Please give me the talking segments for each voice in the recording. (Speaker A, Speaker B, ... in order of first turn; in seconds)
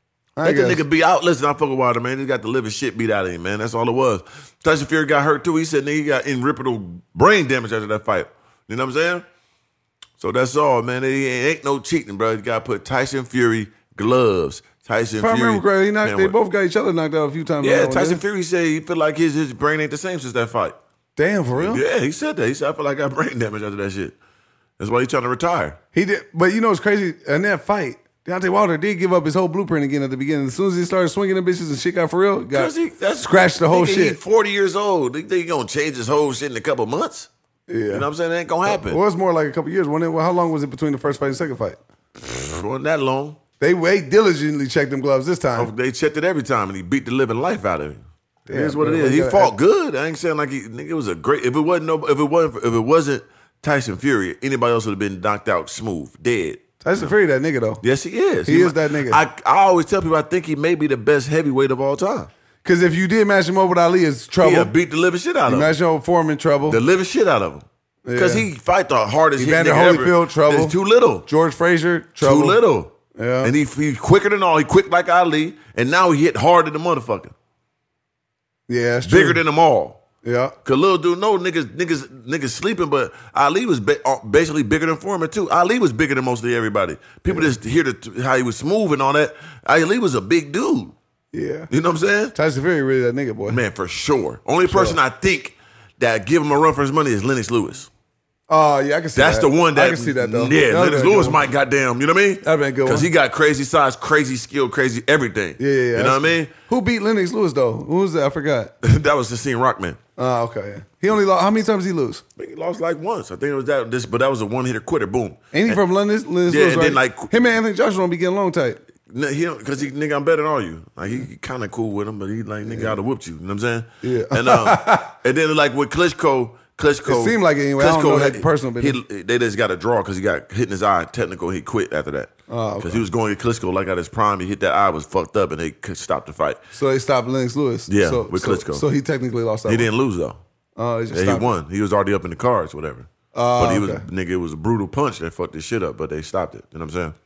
Speaker A: 0.4-0.8, 15.2-18.2, 21.2-21.8, 25.9-32.7, 33.2-34.2, 37.7-38.1, 38.7-41.8, 43.6-45.7, 48.5-49.5, 56.8-57.8, 58.5-59.2, 62.6-64.7, 65.5-66.8, 68.0-68.5, 69.4-70.8, 71.3-72.6, 73.2-73.5, 78.7-79.4, 80.2-80.5, 91.3-91.7, 92.3-93.6, 94.7-95.0, 98.5-101.4, 102.4-103.1, 105.6-108.7, 110.2-112.2, 115.5-118.8, 122.7-123.0, 124.0-125.1, 127.0-129.0, 132.5-133.1, 136.7-139.9, 140.8-141.5, 143.3-144.0
Speaker B: 0.4-9.2, 10.2-16.4, 17.6-20.8, 21.6-24.1, 24.8-25.8, 32.5-37.3, 37.9-39.0, 42.2-43.4, 45.6-57.1, 57.8-62.3, 64.4-65.7, 66.7-71.3, 72.2-77.3, 79.0-80.0, 80.6-91.0, 91.7-92.3, 93.5-97.9, 99.2-106.5, 108.8-110.0, 112.4-115.8, 116.5-117.3, 119.1-136.6, 137.9-138.8, 139.7-140.4, 141.1-147.2